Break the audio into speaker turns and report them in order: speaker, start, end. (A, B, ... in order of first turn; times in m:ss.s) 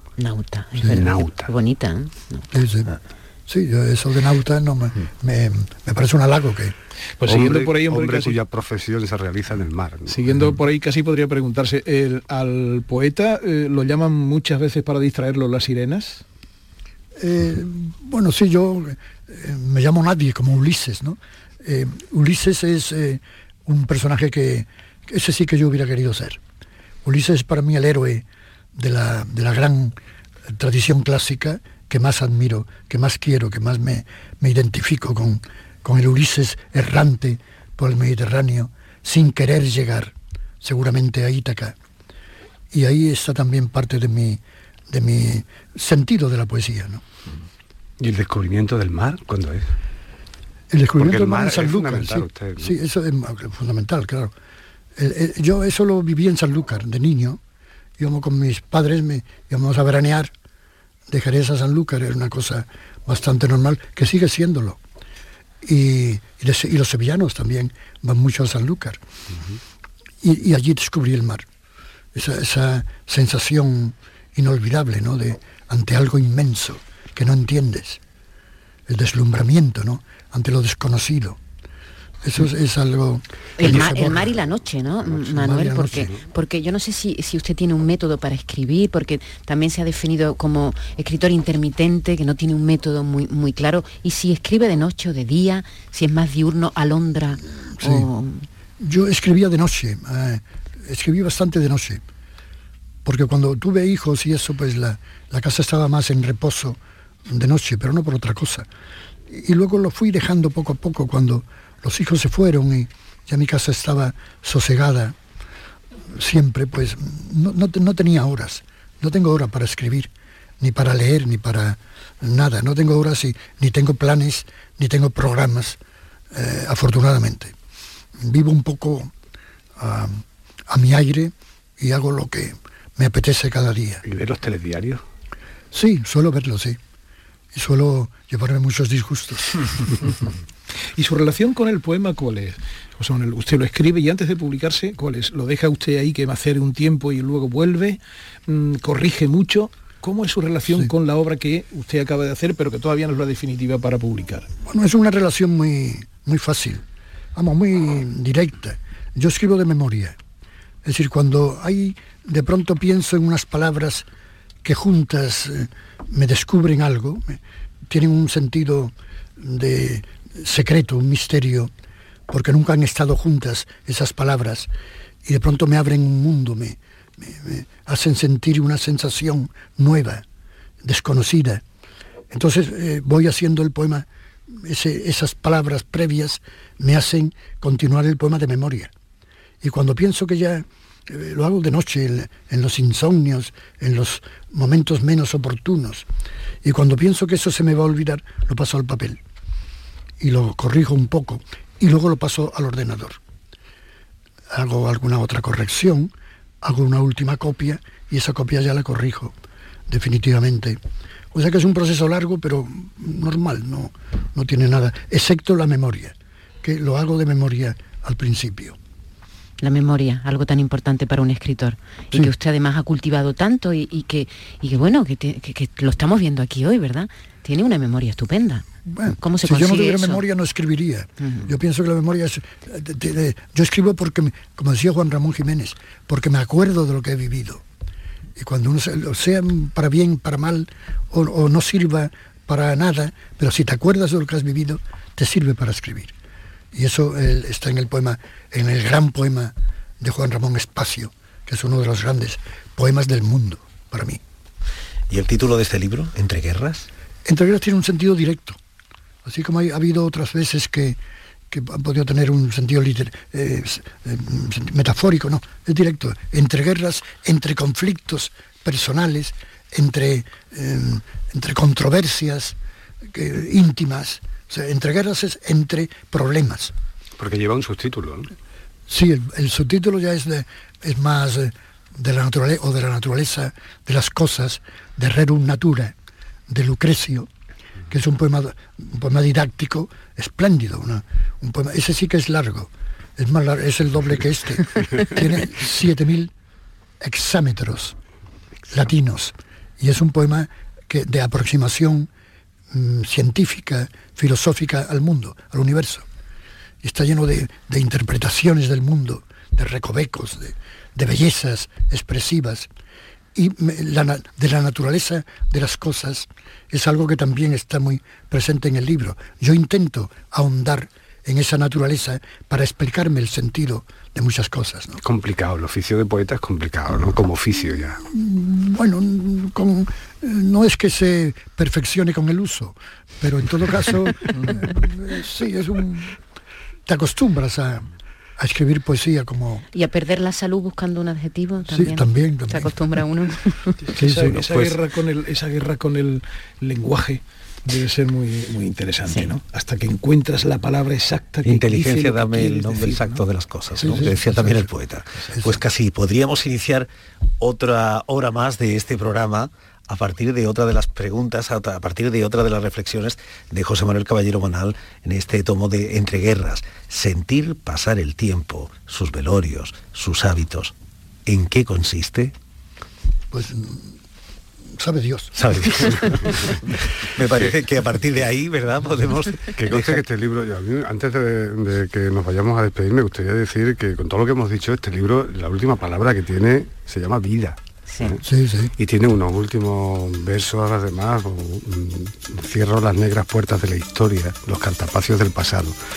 0:00.2-0:02.4 A
0:00.8-0:01.5 B
0:02.5-0:02.9 C
0:03.5-0:06.7 C
0:07.2-0:08.4 D
0:07.2-0:10.3 B
0:10.1-0:16.2 D
0:17.2-0:26.4 C
0:27.0-0:28.2 C
0:28.8-0:29.9 C
0:30.5-0:41.8 C
0:42.7-0:47.0 C
0:48.0-0:49.7 B
0:50.7-0:54.3 C
0:51.0-0:52.7 B
0:55.0-0:57.4 C
0:58.0-1:00.3 C
1:01.1-1:04.8 C
1:05.6-1:09.0 C
1:10.2-1:11.4 C
1:12.1-1:18.0 C
1:18.9-1:21.4 C
1:22.2-1:24.3 C
1:23.6-1:38.4 A
1:25.0-1:26.2 C
1:37.8-1:38.1 C
1:38.8-1:42.0 C
1:43.0-1:48.6 C
1:49.3-1:55.2 C
1:56.1-2:05.8 C
2:06.3-2:07.5 C
2:08.2-2:09.1 C
2:09.8-2:14.0 C
2:14.0-2:15.0 B
2:15.7-2:16.8 C
2:17.5-2:20.1 C
2:21.0-2:34.5 D
2:34.6-2:36.8 C
2:37.3-2:40.2 C
2:40.8-2:44.0 C
2:44.6-2:51.7 C
2:52.3-2:54.7 C
2:55.2-3:00.2 C
3:00.8-3:01.6 C
3:02.3-3:08.9 C
3:09.6-3:16.0 C
3:16.6-3:19.2 C
3:20.2-3:23.2 C
3:24.5-3:29.4 C
3:29.9-3:30.8 C
3:31.3-3:38.8 C
3:39.6-3:48.6 A
3:48.8-3:57.6 C
3:49.2-3:50.2 A
3:51.2-3:51.5 A
3:58.4-4:06.1 C
4:06.7-4:14.2 C
4:15.1-4:16.9 E
4:17.2-4:18.6 C
4:19.2-4:21.0 C
4:21.5-4:32.6 C
4:33.1-4:36.7 C
4:37.2-4:38.3 B
4:38.9-4:45.9 C
4:46.5-4:47.3 C
4:47.9-4:56.3 C
4:57.0-4:58.0 C
4:58.7-5:02.1 C
5:02.7-5:06.0 C
5:06.8-5:12.7 C
5:13.3-5:25.0 C
5:25.0-5:28.0 B
5:28.0-5:36.2 C
5:34.3-5:34.7 D
5:36.9-5:39.6 C
5:39.7-5:43.8 A
5:41.7-5:42.7 C
5:43.8-5:53.2 D
5:44.0-5:44.4 C
5:44.4-5:44.8 E
5:49.0-5:49.3 A
5:51.4-5:56.9 E
5:53.8-5:54.7 C
5:53.8-5:54.0 D
5:57.4-6:10.7 E
6:11.2-6:12.3 E
6:13.3-6:13.9 C
6:14.7-6:15.7 C
6:15.3-6:20.0 E
6:19.6-6:28.2 B
6:27.9-6:28.1 A
6:28.2-6:28.7 C
6:28.8-6:35.8 B